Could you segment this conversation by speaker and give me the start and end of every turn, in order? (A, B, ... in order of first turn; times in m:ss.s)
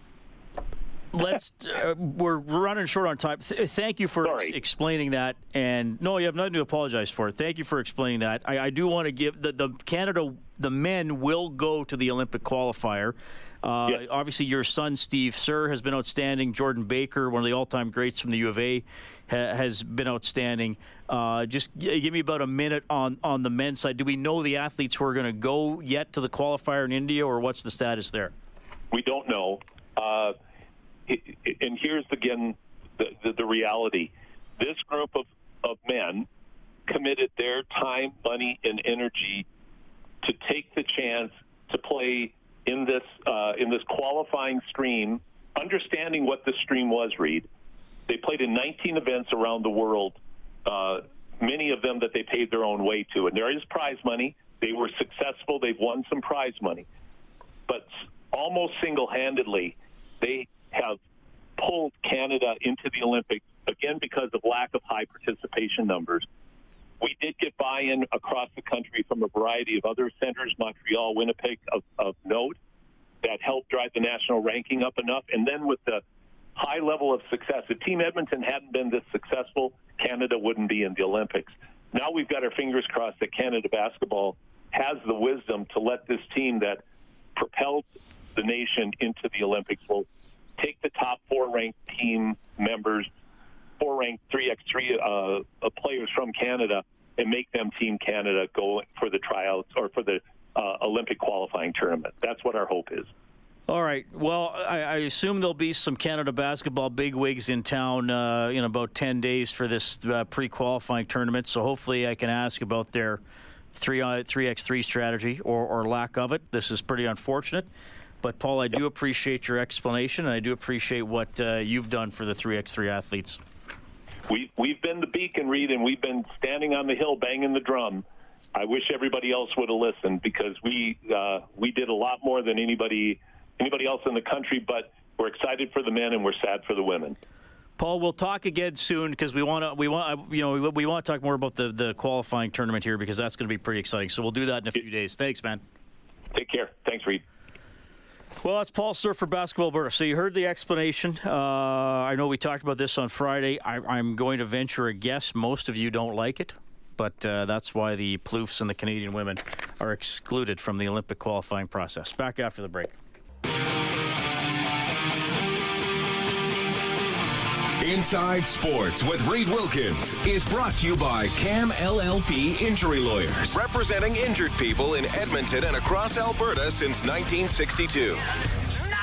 0:01.1-0:28.3 A
0:04.2-0:04.5 B
0:28.9-0:30.4 B
0:31.1-0:36.3 B
0:36.9-0:39.5 B
0:40.2-0:47.5 B
0:48.1-0:56.9 B
0:57.7-1:01.0 B
1:01.6-1:06.3 B
1:07.0-1:12.6 B
1:13.2-1:16.0 B
1:16.6-1:26.8 B
1:27.4-1:30.1 B
1:30.6-1:33.1 B
1:33.8-1:43.1 B
1:43.7-1:53.2 A
1:53.7-1:57.7 A
1:58.2-2:03.4 A
2:04.3-2:17.2 B
2:17.8-2:25.6 A
2:26.3-2:27.2 B
2:28.4-2:43.0 A
2:47.8-2:58.2 C